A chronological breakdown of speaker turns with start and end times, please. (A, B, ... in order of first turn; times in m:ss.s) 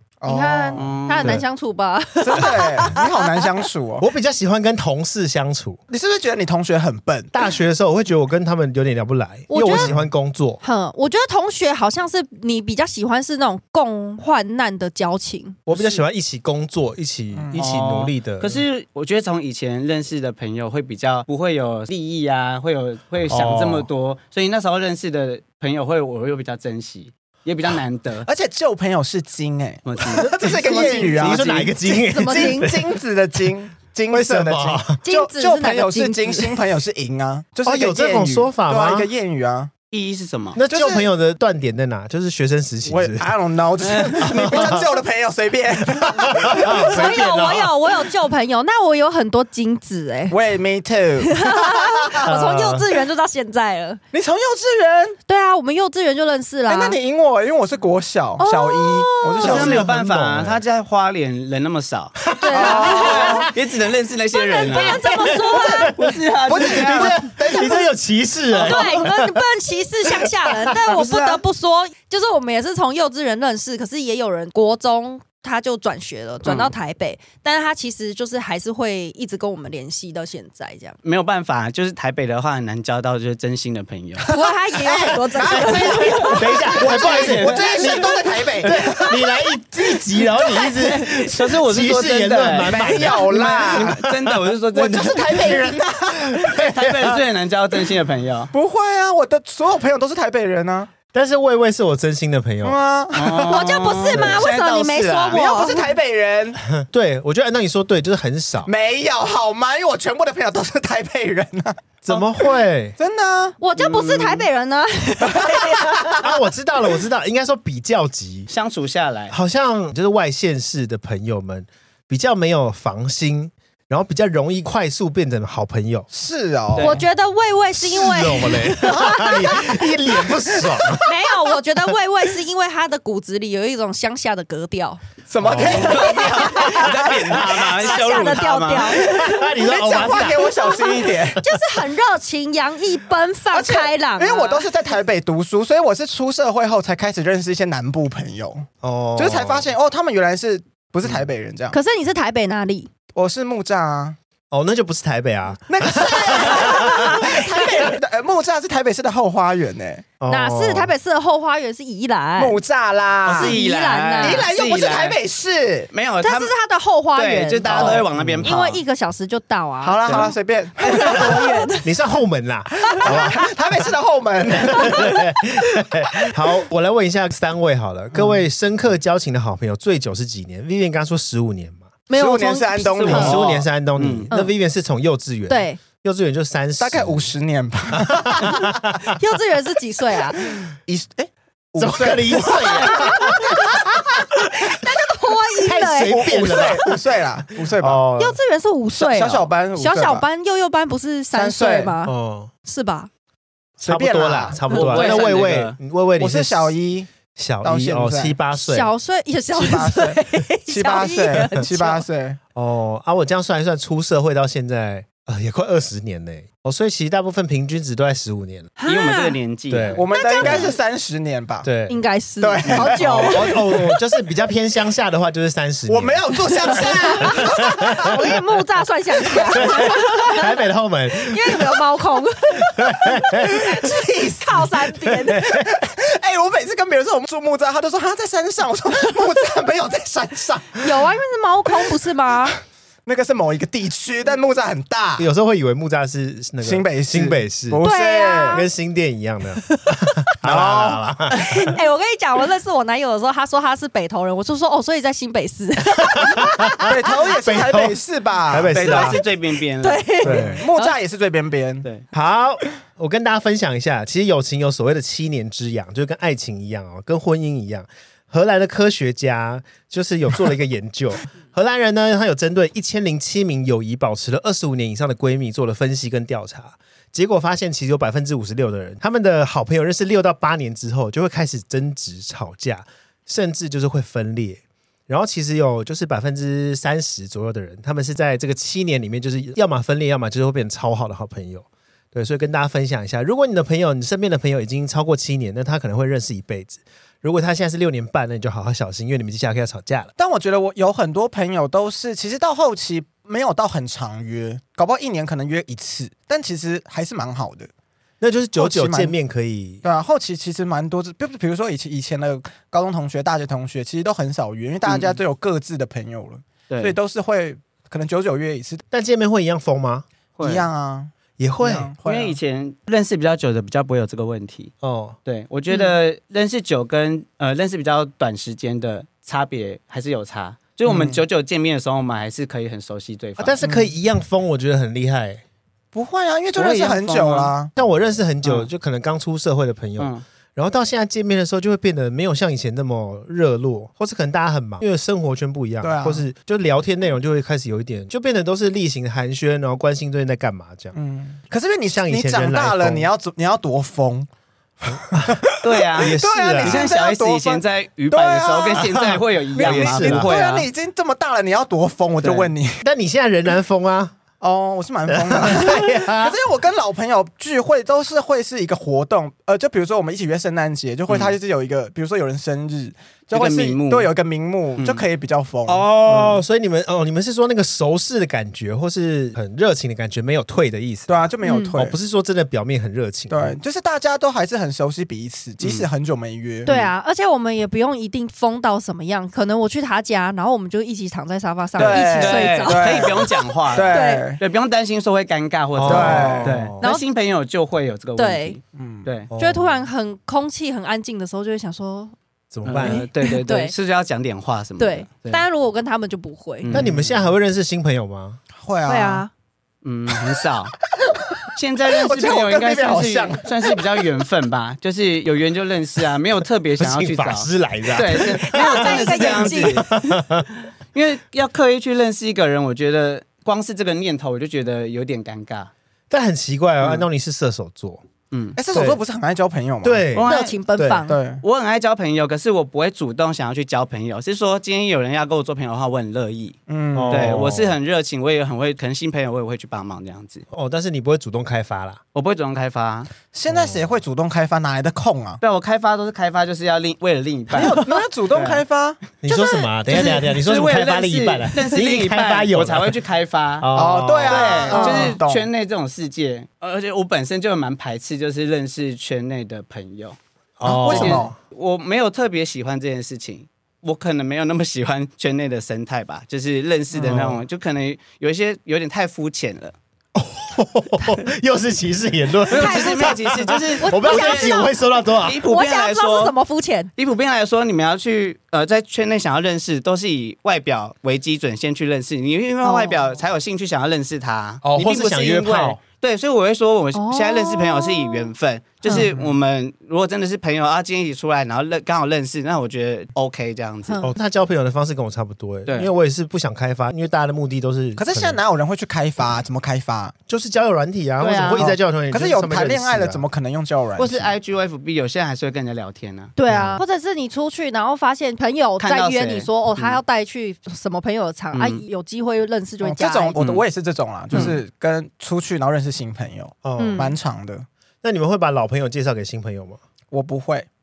0:00.2-0:01.0 A
0:00.2-0:03.4 B
0:00.8-0:01.4 C
0:02.2-0:04.1 A
0:04.0-0:05.8 D
0:05.9-0:07.3 A
0:07.3-0:10.6 D
0:09.5-0:09.9 B
0:09.7-0:10.1 A
0:10.6-0:15.6 B
0:15.7-0:18.6 D
0:17.3-0:17.6 A
0:17.6-0:28.3 C
0:23.3-0:23.9 D
0:28.2-0:39.7 A
0:29.8-0:31.2 C
0:30.2-0:33.0 D
0:32.0-0:32.7 B
0:34.1-0:35.0 D
0:35.0-0:36.6 B
0:37.6-0:39.1 D
0:39.9-0:40.6 C
0:40.5-0:43.2 D
0:40.7-0:41.1 A
0:42.8-0:47.2 A
0:43.8-0:44.3 C
0:44.2-0:44.8 D
0:46.0-0:47.8 D
0:46.5-0:50.4 B
0:50.3-0:52.3 A
0:51.2-0:54.0 B
0:52.2-0:52.8 D
0:54.1-0:55.2 A
0:55.3-0:57.0 B
0:56.7-0:59.9 A
0:58.4-0:59.6 B
0:59.4-1:05.1 C
0:59.4-1:00.6 D
1:02.2-1:03.5 D
1:02.4-1:03.5 B
1:02.5-1:03.5 A
1:04.3-1:05.9 B
1:04.7-1:09.4 D
1:05.5-1:05.9 A
1:05.6-1:07.2 C
1:06.4-1:07.9 A
1:08.5-1:21.0 B
1:10.0-1:10.8 D
1:10.9-1:11.4 A
1:21.0-1:24.3 C
1:24.2-1:28.8 A
1:24.3-1:26.6 B
1:25.5-1:37.2 D
1:26.7-1:28.7 C
1:28.8-1:31.1 B
1:30.9-1:35.6 C
1:32.6-1:33.9 A
1:34.7-1:36.4 A
1:36.4-1:38.5 C
1:38.5-1:40.9 A
1:41.1-1:42.8 D
1:42.6-1:43.6 A
1:43.1-1:45.4 C
1:43.4-1:45.9 B
1:44.1-1:44.4 D
1:45.3-1:46.6 A
1:46.7-1:48.7 D
1:48.6-1:51.8 A
1:52.0-1:53.0 D
1:53.0-1:53.6 A
1:53.6-1:56.3 B
1:53.8-1:54.5 C
1:55.2-1:56.3 A
1:56.2-1:58.5 D
1:58.5-1:59.3 C
1:59.3-2:06.1 D
2:06.1-2:06.9 A
2:06.7-2:07.0 C
2:06.8-2:09.9 B
2:07.8-2:11.1 D
2:08.9-2:09.6 A
2:10.2-2:11.0 A
2:11.0-2:19.6 B
2:15.3-2:17.5 A
2:15.4-2:16.0 D
2:15.5-2:19.1 C
2:19.0-2:20.8 D
2:19.6-2:21.4 A
2:20.4-2:24.7 B
2:23.5-2:31.8 A
2:28.8-2:29.7 D
2:31.7-2:32.9 B
2:33.1-2:34.2 A
2:34.5-2:37.3 D
2:35.7-2:40.0 A
2:36.4-2:37.5 B
2:40.2-2:40.9 D
2:40.3-2:42.6 B
2:42.4-2:43.5 A
2:43.2-2:45.2 C
2:43.3-2:44.5 B
2:44.2-2:45.9 A
2:45.9-2:46.5 C
2:46.2-2:52.0 B
2:47.1-2:48.8 C
2:47.7-2:47.9 A
2:48.1-2:48.5 D
2:49.8-2:51.7 A
2:50.9-2:53.8 D
2:52.8-2:53.4 B
2:52.9-2:55.2 A
2:54.5-3:01.9 D
2:54.6-2:55.2 B
3:02.1-3:03.3 B
3:02.1-3:03.6 A
3:03.0-3:04.3 C
3:03.1-3:07.3 D
3:05.5-3:05.8 B
3:06.8-3:08.8 A
3:08.0-3:09.1 D
3:09.1-3:10.4 B
3:10.8-3:13.8 A
3:11.8-3:14.8 D
3:12.8-3:13.6 B
3:14.7-3:16.9 B
3:15.6-3:16.9 D
3:16.0-3:18.0 A
3:17.7-3:18.4 D
3:18.2-3:22.1 B
3:18.9-3:20.2 A
3:21.3-3:22.0 A
3:22.0-3:22.5 D
3:22.6-3:23.1 B
3:23.8-3:24.6 A
3:23.8-3:26.7 D
3:24.7-3:25.8 C
3:24.7-3:25.1 B
3:26.2-3:27.1 A
3:27.4-3:28.9 D
3:27.6-3:28.4 A
3:28.6-3:32.0 B
3:29.5-3:32.4 A
3:32.5-3:38.7 D
3:38.8-3:39.4 B
3:38.8-3:40.0 C
3:39.7-3:40.7 D
3:39.9-3:41.7 A
3:40.1-3:40.8 B
3:41.6-3:42.0 D
3:41.9-3:44.0 B
3:42.4-3:43.6 A
3:42.7-3:46.2 D
3:45.9-3:48.4 A
3:46.6-3:50.5 B
3:46.8-3:48.2 D
3:49.2-3:50.0 A
3:49.4-3:51.7 D
3:51.2-3:55.4 B
3:52.8-3:53.8 D
3:53.4-4:01.1 A
3:55.3-3:55.7 D
4:00.8-4:02.6 B
4:03.0-4:05.3 A
4:05.2-4:07.8 D
4:06.6-4:08.6 A
4:07.8-4:08.7 B
4:08.5-4:11.4 D
4:10.4-4:11.0 A
4:11.3-4:16.9 B
4:16.2-4:18.0 D
4:16.8-4:19.2 A
4:18.5-4:19.2 D
4:18.7-4:20.2 C
4:19.8-4:20.9 B
4:20.2-4:21.9 A
4:20.2-4:20.6 D
4:22.1-5:00.1 D
5:00.2-5:07.7 A
5:08.2-5:09.8 D
5:08.6-5:09.1 A
5:09.8-5:18.8 A
5:14.8-5:15.2 C
5:16.7-5:17.0 C
5:18.9-5:20.0 D
5:20.4-5:20.7 C
5:20.4-5:22.4 A
5:21.4-5:21.9 D
5:22.0-5:24.7 C
5:24.8-5:25.2 D
5:25.2-5:33.6 C
5:30.8-5:31.2 A
5:33.4-5:35.4 D
5:33.6-5:33.9 A
5:35.9-5:37.7 A
5:36.5-5:37.5 C
5:37.8-5:50.9 D
5:40.0-5:40.2 C
5:45.8-5:46.2 A
5:50.9-5:54.3 A
5:51.9-5:53.1 D
5:54.8-6:02.8 A
5:55.6-6:00.7 C
5:56.0-5:56.9 D
5:58.8-6:00.3 D
6:02.2-6:02.5 C
6:02.8-6:04.2 D
6:04.4-6:15.9 A
6:05.1-6:06.4 D
6:11.1-6:11.4 C
6:13.3-6:14.1 C
6:14.8-6:15.0 C
6:15.7-6:21.2 D
6:21.1-6:22.0 A
6:21.4-6:21.7 B
6:21.7-6:23.6 D
6:23.3-6:26.7 A
6:25.6-6:25.9 C
6:26.6-6:34.3 B
6:26.7-6:26.9 C
6:31.8-6:34.4 A
6:31.8-6:39.3 C
6:35.7-6:36.8 D
6:35.8-6:36.5 A
6:38.2-6:38.6 B
6:38.8-6:39.1 A
6:39.3-6:39.8 D
6:39.4-6:42.1 B
6:42.5-6:43.0 D
6:42.6-6:45.4 C
6:42.8-6:43.7 B
6:44.8-6:46.7 B
6:46.6-6:47.2 C
6:46.7-6:48.4 D
6:46.7-6:47.1 A
6:48.5-6:49.2 A
6:48.9-6:49.3 B
6:49.8-6:50.8 C
6:50.1-6:50.4 A
6:51.0-6:54.0 A
6:51.5-7:00.3 C
6:56.8-7:00.5 D
6:58.3-6:59.9 B
7:00.9-7:05.7 C
7:06.1-7:08.0 D
7:06.8-7:07.0 C
7:08.3-7:08.6 C
7:08.6-7:10.1 A
7:08.7-7:09.0 D
7:09.8-7:11.0 D
7:10.1-7:10.5 C
7:10.2-7:11.2 B
7:11.1-7:11.4 A
7:11.4-7:20.4 C
7:16.7-7:17.5 A
7:16.9-7:17.8 D
7:20.5-7:22.0 D
7:22.1-7:23.1 C
7:23.3-7:25.4 A
7:23.5-7:24.0 D
7:25.4-7:28.6 C
7:27.5-7:29.0 A
7:29.2-7:33.0 D
7:29.3-7:29.6 B
7:29.9-7:40.2 C
7:33.6-7:34.7 D
7:33.7-7:35.4 A
7:34.7-7:35.2 B
7:40.6-7:41.3 D
7:40.6-7:41.3 A
7:40.8-7:49.7 C
7:46.9-7:47.3 A
7:47.0-7:47.4 D
7:50.1-7:55.4 D
7:52.5-7:56.9 B
7:52.5-7:56.3 C
7:57.0-8:14.0 C
8:02.6-8:03.0 B
8:04.6-8:05.8 D
8:06.9-8:08.3 B
8:08.9-8:09.3 A
8:13.9-8:14.1 B
8:14.0-8:18.4 D
8:18.0-8:20.1 A
8:20.3-8:23.2 D
8:21.2-8:21.6 C
8:21.6-8:24.3 A
8:24.0-8:26.3 C
8:26.4-8:33.4 B
8:26.5-8:26.8 D
8:28.8-8:30.0 C
8:31.5-8:31.8 C
8:32.8-8:37.6 A
8:33.4-8:33.6 C
8:34.3-8:34.6 C
8:36.6-8:37.1 D
8:36.8-8:37.2 B
8:38.0-8:39.8 D
8:40.1-8:40.7 A